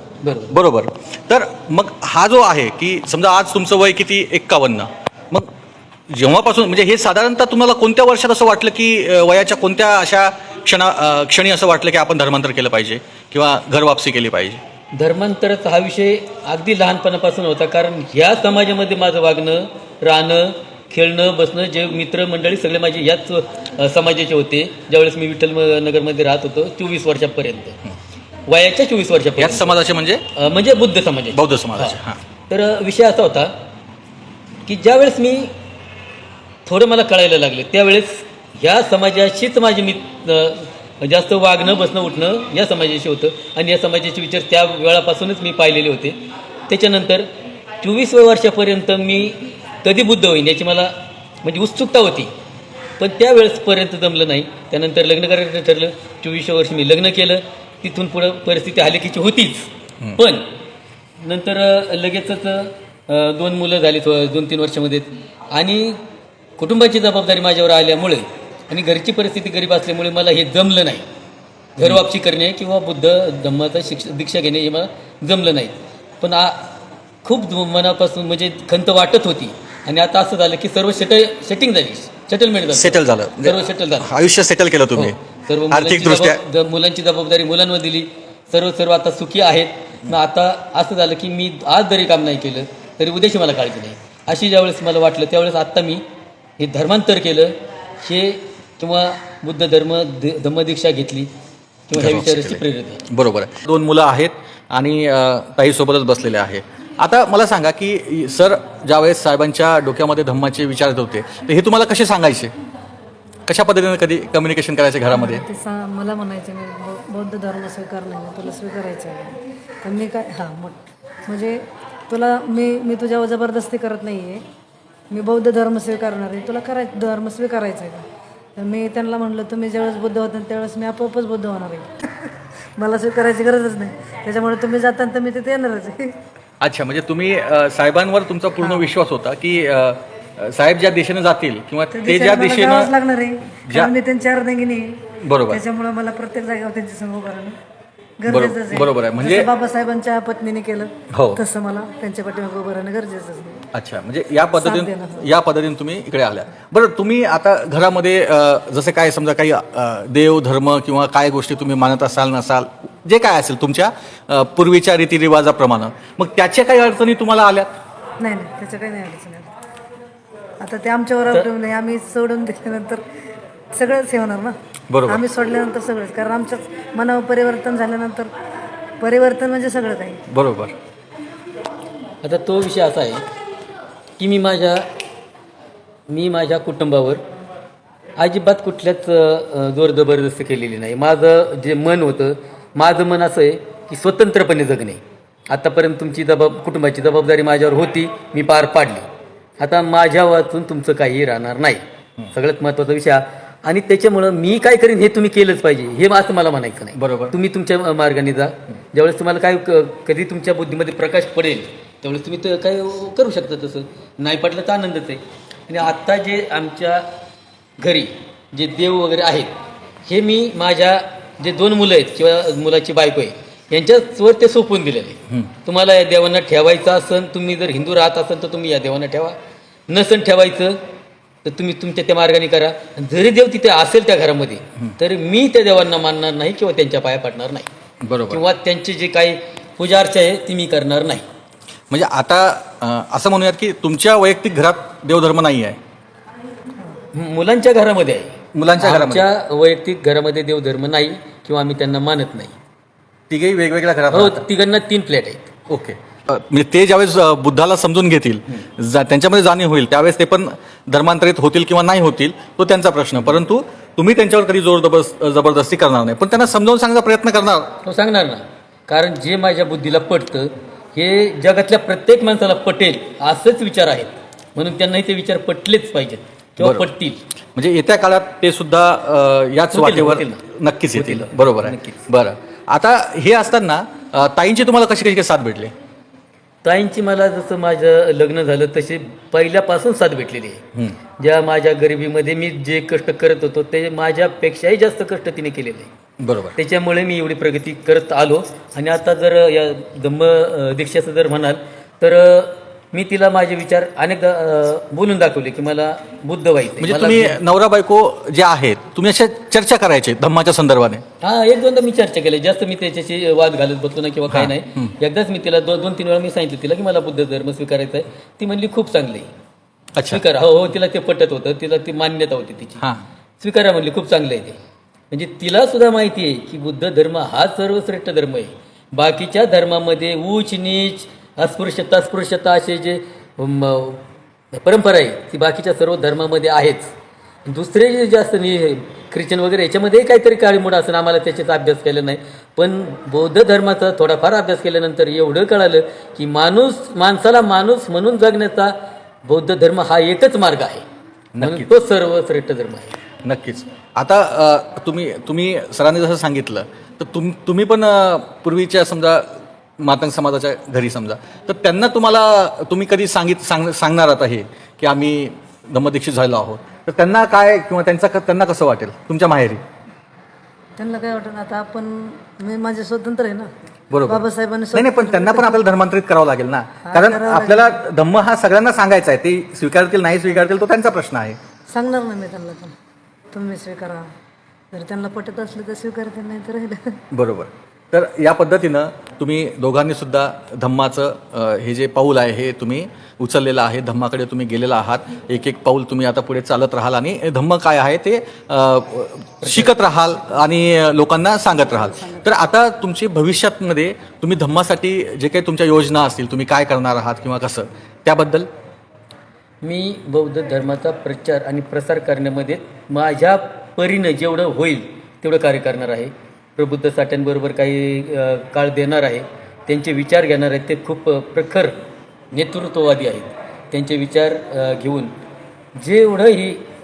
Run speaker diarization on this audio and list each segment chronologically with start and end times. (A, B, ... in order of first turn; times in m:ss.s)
0:00.2-0:00.5 A
0:00.5-0:05.5 B
0:06.1-0:14.6 B
0:14.9-0:27.8 A
0:28.5-0:29.7 A
0:29.4-0:30.2 B
0:30.4-0:33.5 A
0:31.3-0:32.2 B
0:34.6-0:35.5 A
0:36.6-0:47.3 A
0:47.8-0:52.3 A
0:53.0-1:00.5 A
1:01.2-1:06.0 A
1:06.6-1:11.0 A
1:11.8-1:16.7 A
1:17.2-1:24.1 A
1:22.8-1:25.1 B
1:24.9-1:36.0 A
1:25.7-1:26.4 B
1:36.6-1:41.3 A
1:41.9-1:43.0 A
1:41.9-1:52.5 B
1:53.5-1:55.4 B
1:55.1-2:04.4 C
2:05.1-2:08.0 C
2:08.6-2:16.1 C
2:16.6-2:22.9 B
2:18.6-2:18.9 C
2:21.9-2:27.6 C
2:23.7-2:23.9 B
2:25.2-2:25.6 B
2:28.2-2:33.6 C
2:28.3-2:29.5 B
2:31.1-2:31.4 B
2:33.7-2:47.7 B
2:34.6-2:35.3 C
2:48.2-2:49.5 C
2:50.6-2:53.0 C
2:53.7-2:54.5 C
2:54.9-2:55.2 B
2:55.0-2:58.3 C
2:59.0-3:00.2 C
3:00.3-3:00.7 B
3:02.2-3:03.2 A
3:04.2-3:04.9 A
3:06.1-3:07.2 A
3:08.2-3:19.1 A
3:19.6-3:37.1 A
3:27.0-3:27.3 B
3:37.8-3:39.5 A
3:40.0-3:49.4 A
3:49.9-3:50.8 A
3:51.4-3:57.7 A
3:58.0-3:58.4 B
3:58.3-4:01.2 A
4:01.9-4:05.8 B
4:07.1-4:12.6 A
4:08.5-4:09.3 B
4:13.3-4:14.4 B
4:14.1-4:15.5 A
4:15.7-4:27.7 B
4:27.8-4:37.2 A
4:36.6-4:36.9 B
4:37.6-4:45.7 B
4:39.7-4:42.1 A
4:46.6-4:50.6 A
4:51.2-4:55.9 A
4:56.2-4:56.5 B
4:56.6-5:07.4 A
5:06.8-5:11.0 B
5:11.2-5:19.3 A
5:14.3-5:14.9 B
5:19.9-5:20.2 B
5:20.1-5:22.8 A
5:23.4-5:24.6 A
5:25.1-5:36.9 A
5:37.4-5:50.8 A
5:51.4-5:51.7 B
5:51.4-5:53.0 A
5:53.2-6:09.6 B
6:10.8-6:13.5 C
6:13.9-6:14.2 B
6:14.1-6:15.6 C
6:14.7-6:21.4 B
6:16.8-6:17.8 C
6:21.7-6:22.7 C
6:23.3-6:24.1 C
6:24.7-6:27.0 C
6:27.1-6:48.5 B
6:39.4-6:39.7 A
6:49.6-7:01.8 A
7:02.3-7:05.1 A
7:05.8-7:06.6 A